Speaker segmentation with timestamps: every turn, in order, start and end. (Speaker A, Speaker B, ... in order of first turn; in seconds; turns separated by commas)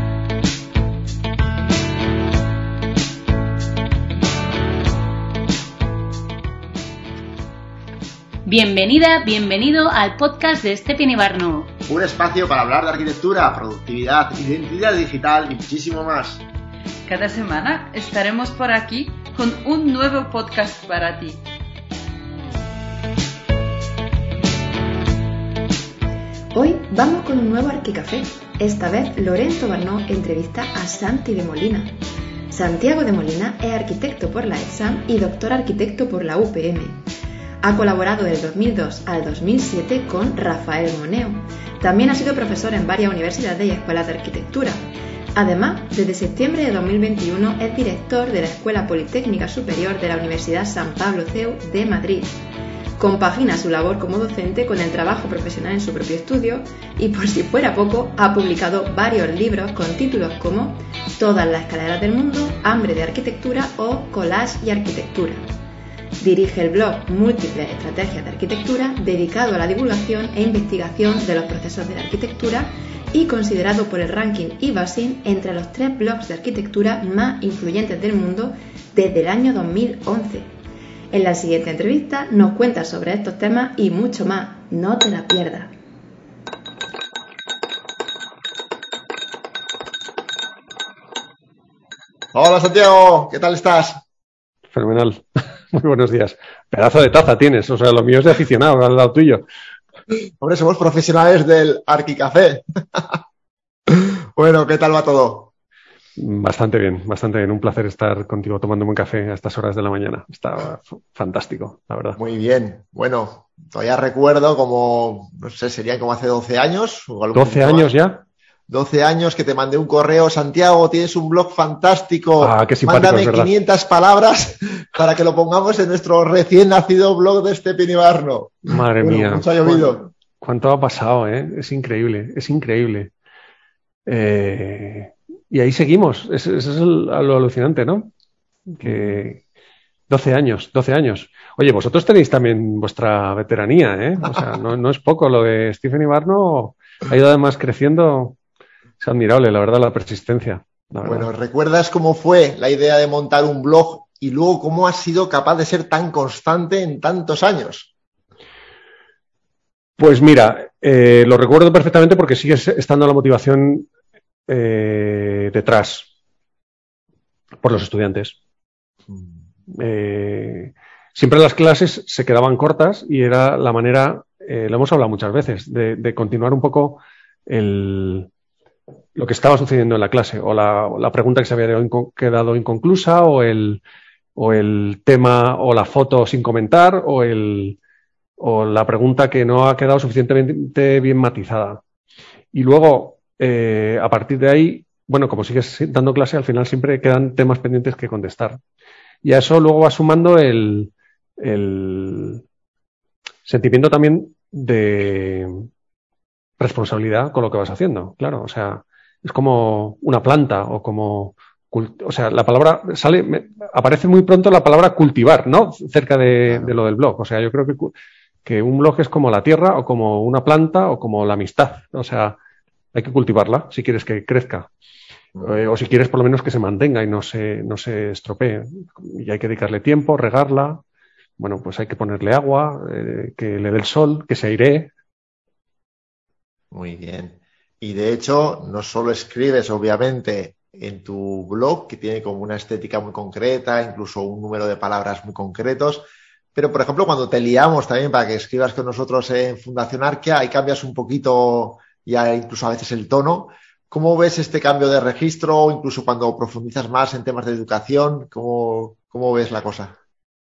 Speaker A: 8.4-11.7, Speaker B: 11.9-16.4, Speaker C: 17.1-21.4, Speaker D: 26.5-32.0, Speaker D: 32.5-37.0, Speaker D: 37.6-52.4, Speaker D: 53.0-65.4, Speaker D: 66.2-80.5, Speaker D: 81.1-85.7, Speaker B: 92.3-94.0, Speaker E: 94.7-99.5, Speaker B: 100.1-103.2, Speaker B: 103.9-105.5, Speaker E: 106.2-112.2, Speaker B: 112.2-117.9, Speaker E: 117.3-118.2, Speaker B: 118.7-130.1, Speaker E: 122.4-123.5, Speaker E: 128.7-133.1, Speaker E: 134.1-138.1, Speaker E: 138.7-139.4, Speaker B: 138.8-139.2, Speaker E: 140.1-148.4, Speaker E: 149.0-151.3, Speaker B: 151.0-157.9, Speaker E: 160.0-163.9, Speaker E: 164.5-166.1, Speaker E: 167.6-168.4, Speaker E: 169.7-178.3, Speaker E: 179.2-183.8, Speaker E: 184.4-187.8, Speaker E: 188.4-191.8, Speaker E: 192.5-198.6, Speaker E: 199.2-202.4, Speaker E: 203.5-205.7, Speaker E: 206.6-217.9, Speaker E: 218.4-222.4, Speaker E: 222.9-224.7, Speaker E: 225.4-230.8, Speaker E: 231.4-234.9, Speaker B: 236.7-260.0